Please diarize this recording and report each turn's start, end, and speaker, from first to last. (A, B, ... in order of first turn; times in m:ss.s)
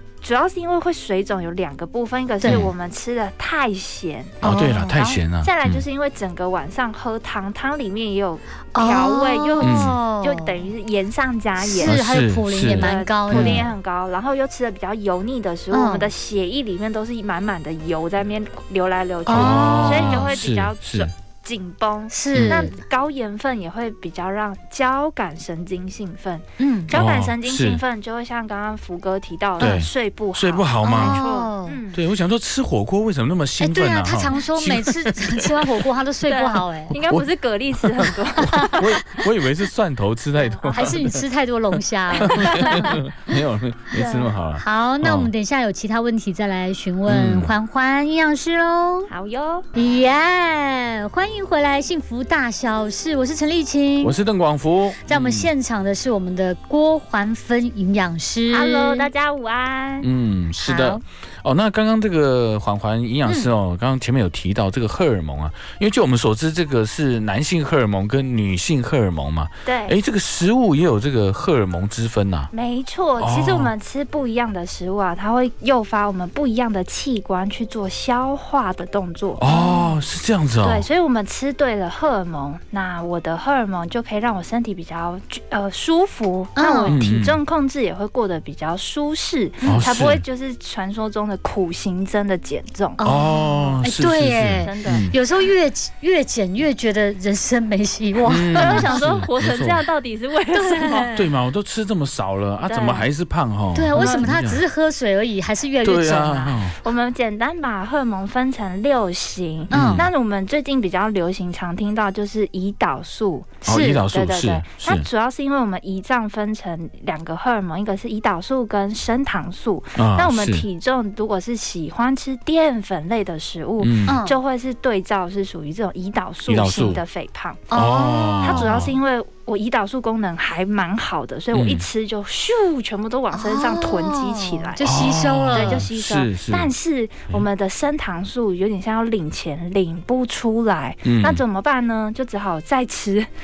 0:00.2-0:12.0 A
0:02.4-0:02.7 B
0:02.4-0:02.7 C
0:04.4-0:05.0 B
0:04.4-0:05.8 C
0:08.8-0:10.6 B
0:09.6-0:10.0 C
0:11.6-0:13.7 B
0:11.8-0:13.7 C
0:12.8-0:32.0 A
0:15.7-0:16.1 B
0:19.3-0:20.3 B
0:19.3-0:21.1 C
0:22.1-0:22.8 B
0:22.3-0:22.7 C
0:26.6-0:26.9 B
0:26.9-0:27.8 C
0:29.6-0:31.2 C
0:29.6-0:29.8 B
0:30.8-0:31.8 B
0:31.9-0:35.8 C
0:33.6-0:37.0 B
0:36.3-0:39.0 A
0:37.8-0:38.1 C
0:38.7-0:41.2 C
0:40.4-0:40.9 A
0:40.7-0:43.0 B
0:42.2-0:42.9 A
0:42.2-0:45.3 C
0:44.0-0:44.3 A
0:44.5-0:49.1 B
0:47.1-0:47.6 C
0:49.1-0:49.7 A
0:49.7-0:54.2 B
0:54.0-0:55.5 C
0:55.0-0:59.1 B
0:58.5-1:00.1 A
1:00.0-1:12.5 C
1:00.6-1:01.0 B
1:03.3-1:03.5 B
1:09.6-1:10.0 A
1:12.5-1:19.4 A
1:13.2-1:13.7 C
1:19.4-1:20.8 C
1:19.5-1:20.0 B
1:20.6-1:33.0 A
1:26.6-1:27.0 B
1:26.9-1:27.4 C
1:29.6-1:29.9 B
1:29.6-1:30.2 C
1:33.0-1:39.2 B
1:33.0-1:35.2 C
1:34.6-1:35.1 A
1:38.3-1:39.8 C
1:38.5-1:41.1 A
1:40.5-1:41.2 B
1:41.1-1:44.6 C
1:42.6-1:43.1 A
1:43.8-1:46.6 B
1:43.9-1:44.3 A
1:45.8-1:46.8 C
1:46.2-2:07.7 A
1:49.7-1:50.1 B
1:49.7-1:50.1 C
1:53.6-1:54.0 B
1:53.6-1:55.1 C
2:00.0-2:00.7 C
2:03.8-2:04.2 C
2:04.1-2:04.4 B
2:06.5-2:07.0 C
2:07.7-2:08.8 B
2:07.7-2:09.0 C
2:08.4-2:23.3 A
2:11.5-2:11.9 C
2:13.3-2:15.8 B
2:14.8-2:16.7 C
2:21.0-2:21.4 C